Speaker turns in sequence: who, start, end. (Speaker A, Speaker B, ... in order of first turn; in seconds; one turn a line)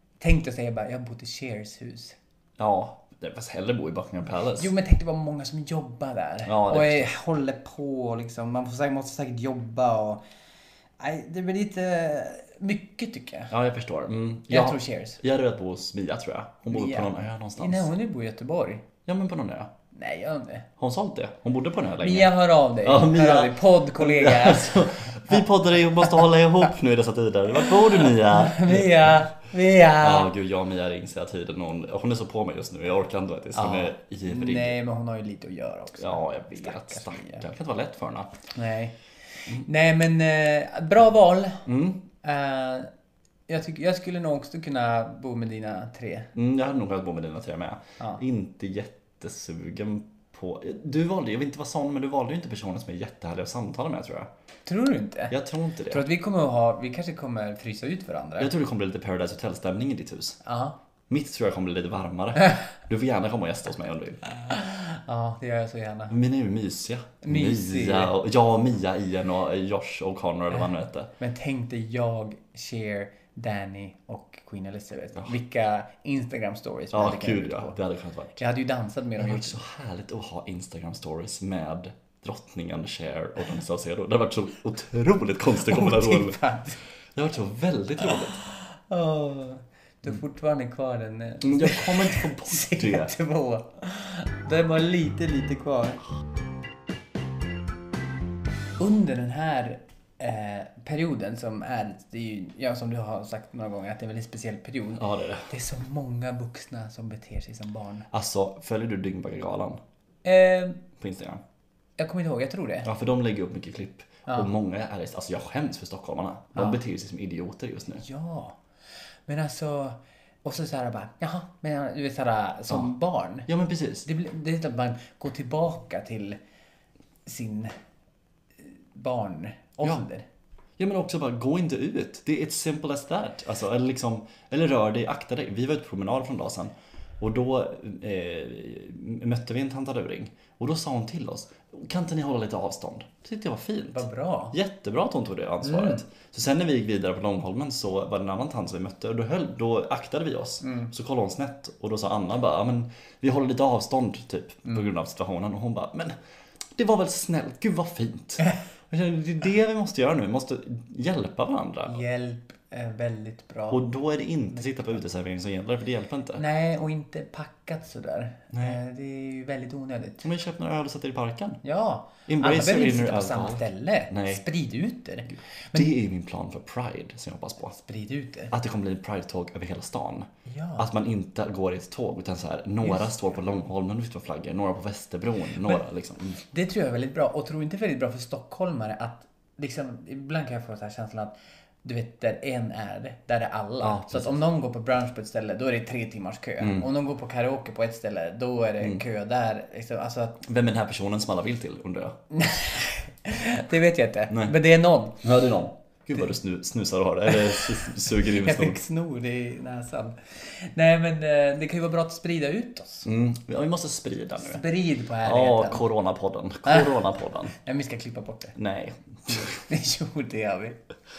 Speaker A: 0.2-2.2
Speaker B: 2.6-4.7
Speaker A: 4.6-10.2
Speaker B: 6.5-7.1
Speaker A: 11.0-13.5
Speaker B: 13.5-17.9
Speaker A: 14.5-15.2
Speaker A: 16.7-18.9
Speaker B: 19.1-19.7
Speaker A: 19.9-20.7
Speaker B: 20.8-29.2
Speaker A: 22.0-25.4
Speaker A: 26.0-26.3
Speaker A: 27.6-30.3
Speaker B: 30.0-34.8
Speaker A: 33.5-37.5
Speaker B: 36.0-38.3
Speaker A: 38.5-41.7
Speaker B: 41.7-42.0
Speaker A: 42.2-42.9
Speaker A: 43.5-46.3
Speaker B: 46.4-54.3
Speaker A: 54.7-55.4
Speaker B: 55.3-56.0
Speaker A: 55.9-58.5
Speaker B: 58.4-60.4
Speaker A: 60.4-60.8
Speaker B: 61.1-64.2
Speaker A: 64.3-66.2
Speaker B: 66.1-71.1
Speaker A: 67.2-68.2
Speaker A: 71.2-77.8
Speaker B: 76.9-78.4
Speaker A: 78.4-79.6
Speaker B: 79.2-86.4
Speaker A: 85.6-86.8
Speaker B: 87.2-88.4
Speaker A: 88.1-96.0
Speaker B: 91.4-93.1
Speaker A: 98.8-108.1
Speaker B: 105.0-105.5
Speaker B: 108.1-109.8
Speaker A: 110.2-110.8
Speaker B: 111.0-111.4
Speaker A: 112.0-112.9
Speaker B: 112.8-118.0
Speaker A: 118.0-118.6
Speaker A: 119.3-123.5
Speaker B: 123.5-124.1
Speaker A: 124.1-126.4
Speaker A: 127.3-127.7
Speaker A: 128.9-130.3
Speaker B: 130.8-156.2
Speaker A: 143.9-144.6
Speaker A: 145.7-146.0
Speaker A: 150.6-150.9
Speaker B: 156.8-162.0
Speaker A: 161.9-163.8
Speaker B: 163.7-166.4
Speaker A: 164.5-165.0
Speaker A: 166.4-170.3
Speaker B: 168.5-168.8
Speaker B: 170.2-171.6
Speaker A: 171.6-175.9
Speaker B: 172.3-174.4
Speaker B: 175.7-177.8
Speaker A: 177.7-178.5
Speaker B: 178.5-186.4
Speaker A: 180.5-180.9
Speaker A: 182.8-183.1
Speaker A: 186.5-200.4
Speaker B: 193.8-194.3
Speaker B: 196.6-196.9
Speaker B: 200.4-202.2
Speaker A: 202.3-205.2
Speaker B: 204.3-204.6
Speaker B: 205.2-208.8
Speaker A: 207.3-213.1
Speaker B: 213.1-214.6
Speaker A: 214.4-215.8
Speaker B: 215.2-217.6
Speaker A: 216.7-216.9
Speaker A: 217.6-218.6
Speaker B: 218.6-219.6
Speaker A: 219.3-220.8